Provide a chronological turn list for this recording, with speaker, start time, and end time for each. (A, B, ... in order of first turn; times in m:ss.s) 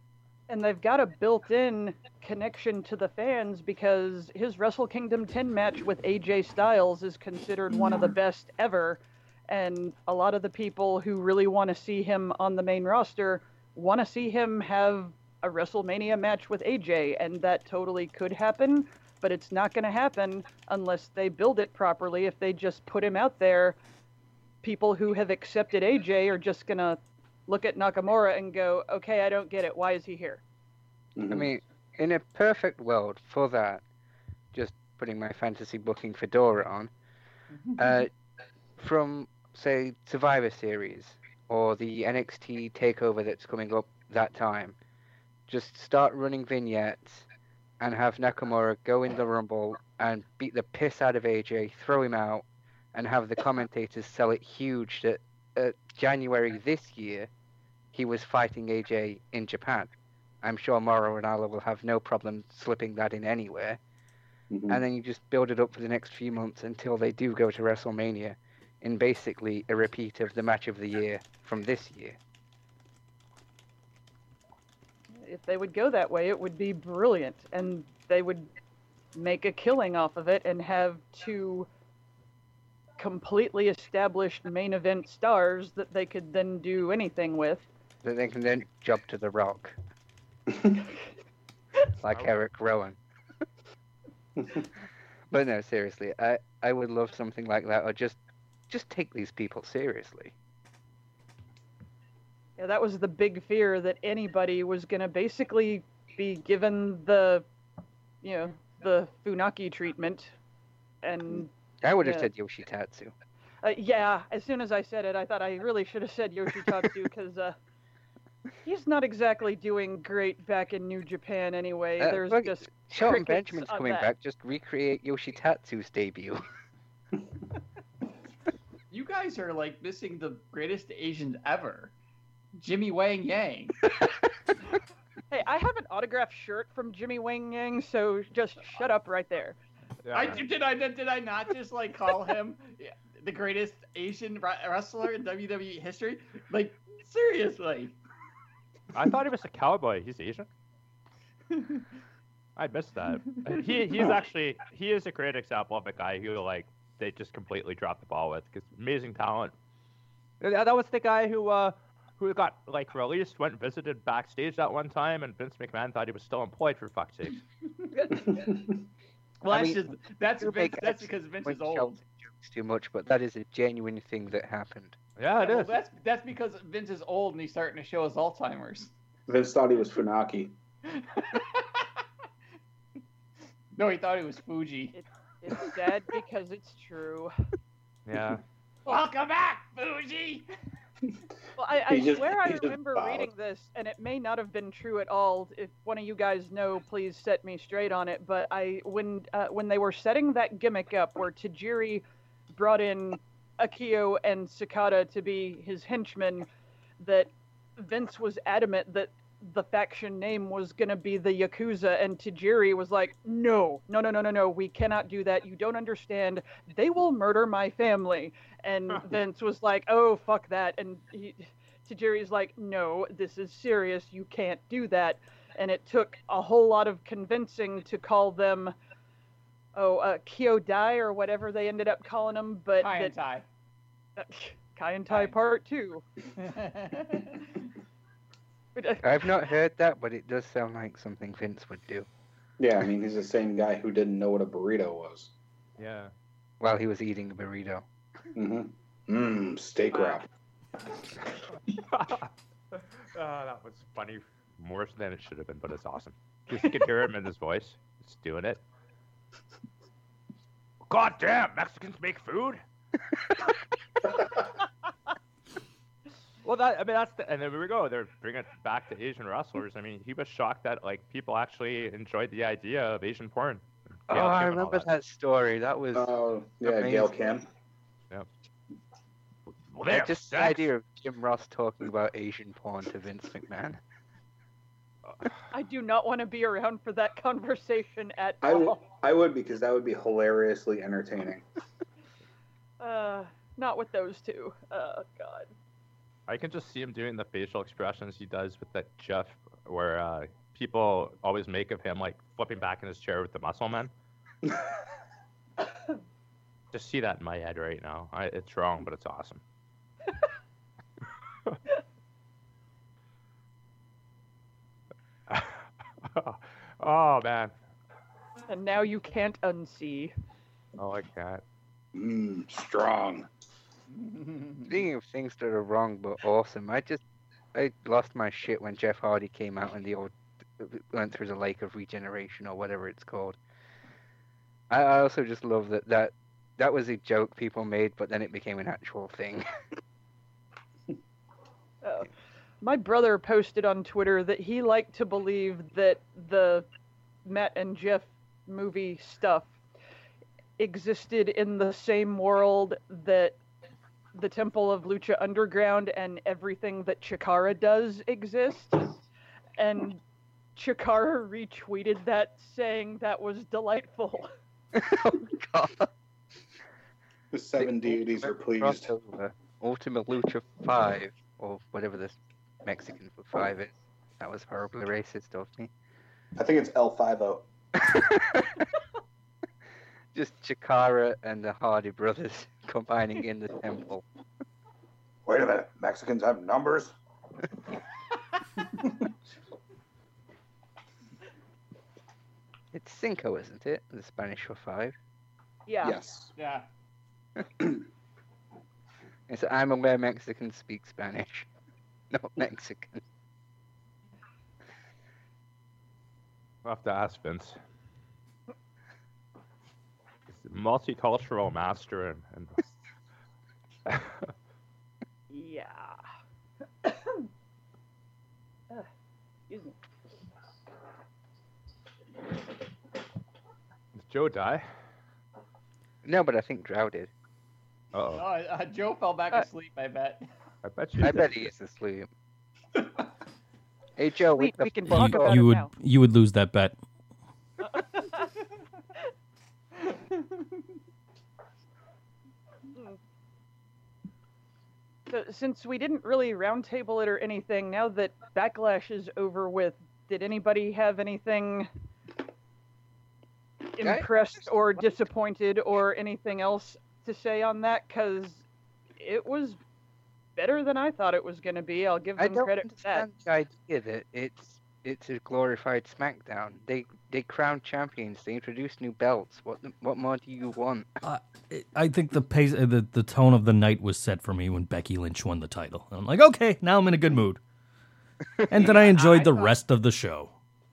0:00.5-0:23.8 A
0:24.6-0:30.4 A
0:31.2-0:31.5 B
0:31.3-0:33.8 C
0:34.5-0:36.9 C
0:37.7-0:38.0 D
0:37.8-0:38.1 C
0:38.8-0:44.8 C
0:45.5-0:47.3 C
0:47.8-0:57.3 C
0:57.9-1:03.8 C
1:04.5-1:04.8 B
1:04.7-1:12.2 C
1:15.2-1:18.5 A
1:19.1-1:21.7 A
1:23.0-1:27.6 A
1:28.0-1:29.8 C
1:30.5-1:30.8 B
1:32.0-1:33.0 C
1:34.4-1:34.6 B
1:35.3-1:40.3 C
1:42.6-1:47.4 A
1:48.2-1:50.4 A
1:51.0-1:52.3 A
1:51.8-1:53.1 C
1:53.6-1:57.6 A
1:58.6-2:04.1 A
2:02.0-2:06.4 C
2:08.9-2:11.9 D
2:12.6-2:13.7 D
2:15.3-2:19.6 A
2:20.0-2:20.4 E
2:20.1-2:28.0 D
2:28.9-2:30.5 E
2:31.5-2:31.8 D
2:32.6-2:39.5 E
2:33.3-2:34.1 D
2:40.4-2:47.4 E
2:48.4-2:48.6 B
2:49.4-2:52.0 D
2:49.5-2:55.0 C
2:55.2-2:55.7 E
2:55.4-2:58.9 D
2:59.3-3:00.6 B
3:00.9-3:02.0 D
3:03.7-3:05.0 D
3:04.9-3:07.3 A
3:08.1-3:08.4 E
3:08.9-3:10.5 D
3:11.6-3:22.0 A
3:11.9-3:13.3 B
3:22.6-3:26.5 A
3:27.0-3:48.7 A
3:49.7-3:53.1 A
3:52.8-3:53.4 D
3:54.2-3:56.0 A
3:55.1-3:55.4 D
3:56.4-3:57.6 D
3:58.8-3:59.0 A
3:59.0-4:02.1 C
4:02.6-4:05.3 B
4:05.8-4:06.1 E
4:06.6-4:07.8 C
4:08.4-4:10.3 B
4:11.7-4:18.6 E
4:20.9-4:22.6 E
4:26.4-4:34.9 E
4:34.1-4:36.1 C
4:35.9-4:37.4 B
4:36.6-4:37.4 C
4:39.7-4:40.7 E
4:39.9-4:43.8 C
4:45.5-4:48.8 A
4:48.4-4:51.4 B
4:52.8-4:55.5 A
4:56.3-5:03.9 E
5:06.7-5:09.4 E
5:15.3-5:17.5 E
5:18.5-5:20.1 A
5:20.8-5:21.4 E
5:21.9-5:23.3 B
5:23.9-5:24.8 D
5:24.6-5:27.0 C
5:27.5-5:33.4 C
5:34.7-5:39.4 C
5:41.8-5:42.1 A
5:42.6-5:46.6 A
5:47.2-5:49.5 A
5:50.6-5:53.4 A
5:54.1-5:59.0 A
5:59.6-6:00.0 A
6:00.6-6:04.3 A
6:04.7-6:05.9 C
6:07.3-6:08.9 B
6:07.6-6:15.7 C
6:16.4-6:17.4 B
6:17.8-6:18.6 C
6:20.1-6:24.0 C
6:25.3-6:27.0 B
6:28.8-6:29.0 B
6:32.7-6:35.0 C
6:35.7-6:36.0 A
6:35.8-6:36.3 B
6:36.4-6:36.6 D
6:39.3-6:41.5 C
6:42.1-6:43.0 C
6:46.6-6:47.6 E
6:50.3-6:52.7 E
6:53.9-6:54.3 E
6:55.3-6:56.0 A
6:56.8-6:57.2 A
6:59.5-6:59.7 A
7:04.0-7:04.7 E
7:06.0-7:07.1 C
7:07.9-7:08.2 E
7:08.1-7:10.2 D
7:10.6-7:11.5 E
7:11.0-7:12.1 C
7:14.0-7:15.4 C
7:14.4-7:15.7 A
7:14.9-7:16.7 F
7:17.6-7:18.3 A
7:25.1-7:31.7 A
7:33.7-7:38.4 A
7:33.8-7:34.1 C
7:39.0-7:39.6 A
7:40.4-7:43.1 A
7:42.2-7:51.0 C
7:51.0-7:57.4 F
7:58.3-7:58.7 C
7:58.5-8:00.3 F
7:58.6-7:59.6 D